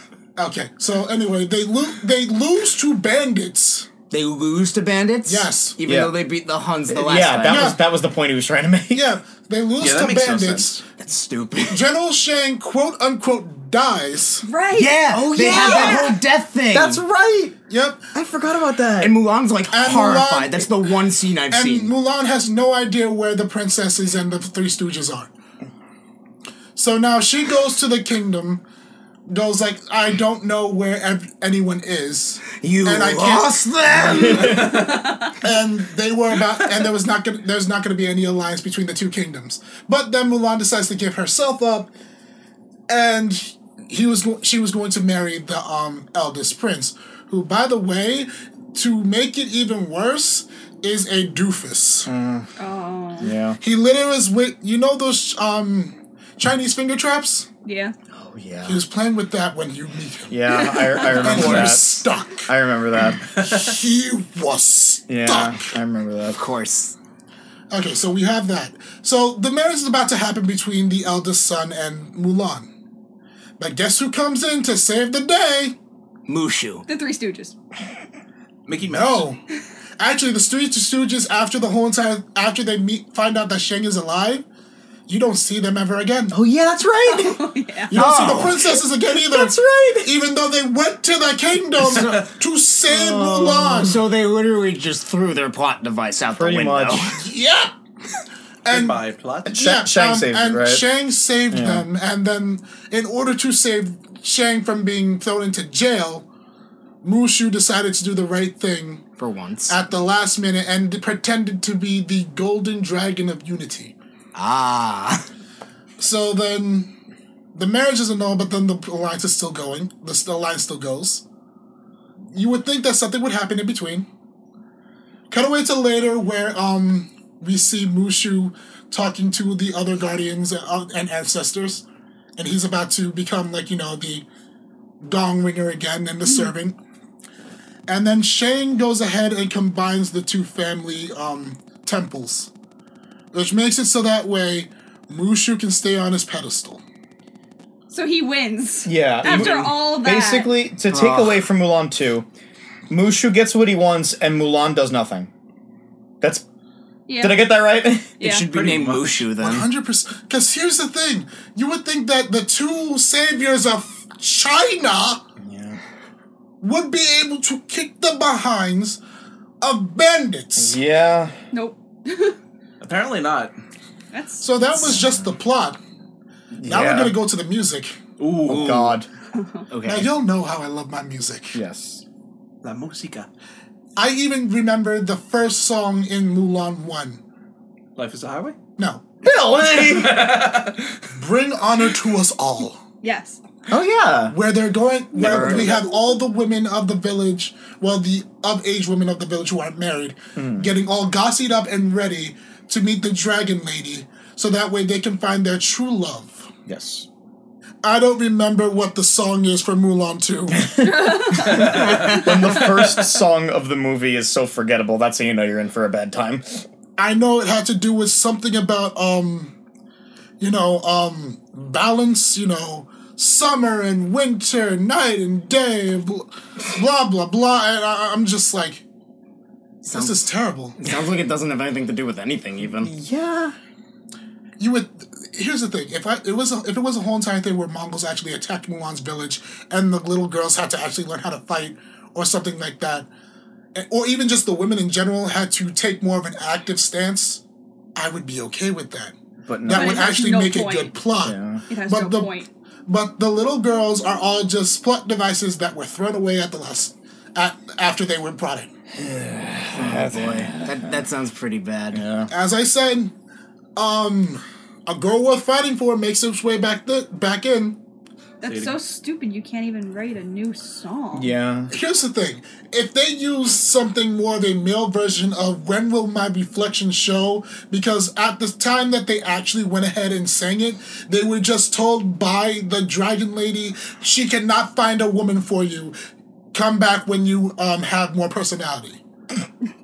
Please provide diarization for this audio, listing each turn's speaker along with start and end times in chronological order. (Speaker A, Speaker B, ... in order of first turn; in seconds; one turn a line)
Speaker A: 0.4-3.9
Speaker B: 4.1-7.8
Speaker A: 5.2-5.8
Speaker C: 5.8-6.1
Speaker C: 6.9-9.1
Speaker A: 7.5-7.8
Speaker A: 8.9-10.8
Speaker D: 9.8-10.8
Speaker B: 11.0-11.8
Speaker A: 11.7-14.4
Speaker E: 14.4-16.2
Speaker B: 14.7-17.0
Speaker C: 15.1-16.1
Speaker C: 16.7-17.6
Speaker A: 17.7-18.1
Speaker C: 18.1-19.2
Speaker B: 19.0-21.9
Speaker A: 19.7-20.7
Speaker A: 21.5-25.3
Speaker A: 26.8-28.6
Speaker A: 29.3-41.9
Speaker B: 32.5-34.9
Speaker C: 34.2-34.8
Speaker A: 42.9-52.1
Speaker C: 52.0-52.5
Speaker E: 52.6-53.3
Speaker C: 53.2-53.6
Speaker A: 53.6-57.5
Speaker E: 57.6-57.9
Speaker C: 58.1-58.8
Speaker A: 58.6-62.5
Speaker C: 60.3-63.2
Speaker E: 60.5-61.4
Speaker D: 61.2-61.8
Speaker A: 63.2-65.7
Speaker D: 63.4-63.7
Speaker C: 65.1-66.4
Speaker B: 66.3-66.9
Speaker A: 67.7-72.7
Speaker A: 73.6-75.7
Speaker B: 76.3-76.8
Speaker E: 76.9-77.5
Speaker D: 78.7-79.3
Speaker A: 78.9-79.4
Speaker A: 80.0-84.4
Speaker A: 85.1-86.4
Speaker C: 86.3-87.4
Speaker E: 87.0-88.0
Speaker A: 87.9-94.0
Speaker B: 87.9-88.7
Speaker C: 89.0-90.1
Speaker D: 91.8-92.2
Speaker B: 92.9-97.2
Speaker C: 96.3-97.2
Speaker A: 97.2-97.7
Speaker A: 98.7-99.0
Speaker D: 98.7-99.5
Speaker C: 99.4-100.8
Speaker A: 99.5-106.2
Speaker C: 101.5-101.8
Speaker A: 107.0-109.0
Speaker B: 109.2-109.8
Speaker A: 109.7-113.9
Speaker B: 114.3-115.2
Speaker A: 116.0-116.9
Speaker A: 117.5-121.2
Speaker A: 122.3-124.1
Speaker A: 125.3-131.8
Speaker A: 132.4-134.2
Speaker A: 135.0-136.8
Speaker E: 136.2-136.5
Speaker A: 137.9-142.5
Speaker A: 143.3-146.8
Speaker E: 147.9-150.5
Speaker C: 148.8-152.2
Speaker D: 149.2-149.6
Speaker B: 150.9-151.4
Speaker C: 152.9-155.3
Speaker E: 157.1-157.4
Speaker C: 157.2-158.2
Speaker E: 158.2-158.5
Speaker B: 158.2-159.7
Speaker D: 158.5-159.3
Speaker A: 159.4-165.2
Speaker C: 165.4-165.8
Speaker A: 166.6-169.0
Speaker A: 169.6-170.8
Speaker C: 170.6-171.3
Speaker E: 171.5-172.4
Speaker D: 172.8-173.5
Speaker E: 174.1-174.4
Speaker A: 174.4-175.8
Speaker C: 176.5-177.2
Speaker A: 176.6-178.0
Speaker D: 178.2-179.0
Speaker C: 178.4-179.1
Speaker B: 178.6-178.8
Speaker E: 179.3-179.6
Speaker B: 179.7-180.1
Speaker A: 179.8-181.6
Speaker C: 181.5-182.0
Speaker D: 182.6-183.3
Speaker A: 183.9-187.2
Speaker D: 187.9-188.6
Speaker A: 188.8-189.0
Speaker C: 189.2-190.3
Speaker D: 189.7-191.0
Speaker A: 191.1-192.8
Speaker E: 193.0-193.4
Speaker C: 193.7-194.3
Speaker A: 194.3-206.5
Speaker B: 195.2-195.8
Speaker C: 200.3-200.7
Speaker C: 206.7-207.1
Speaker A: 207.8-210.7
Speaker C: 210.5-216.6
Speaker E: 210.8-212.3
Speaker A: 217.0-219.5
Speaker A: 220.4-228.8
Speaker B: 229.8-230.2
Speaker A: 229.9-230.8
Speaker B: 230.8-232.9
Speaker C: 232.8-233.6
Speaker A: 234.6-243.1
Speaker A: 243.7-247.4
Speaker A: 247.9-258.7
Speaker C: 249.4-250.1
Speaker E: 249.7-250.9
Speaker C: 251.2-251.6
Speaker E: 251.7-252.5
Speaker C: 258.9-260.9
Speaker B: 259.7-262.0
Speaker C: 261.9-262.3
Speaker A: 262.3-263.1
Speaker A: 263.8-267.8
Speaker E: 268.4-271.3
Speaker D: 268.4-268.8
Speaker C: 271.1-271.7
Speaker A: 271.7-285.9
Speaker A: 286.5-289.0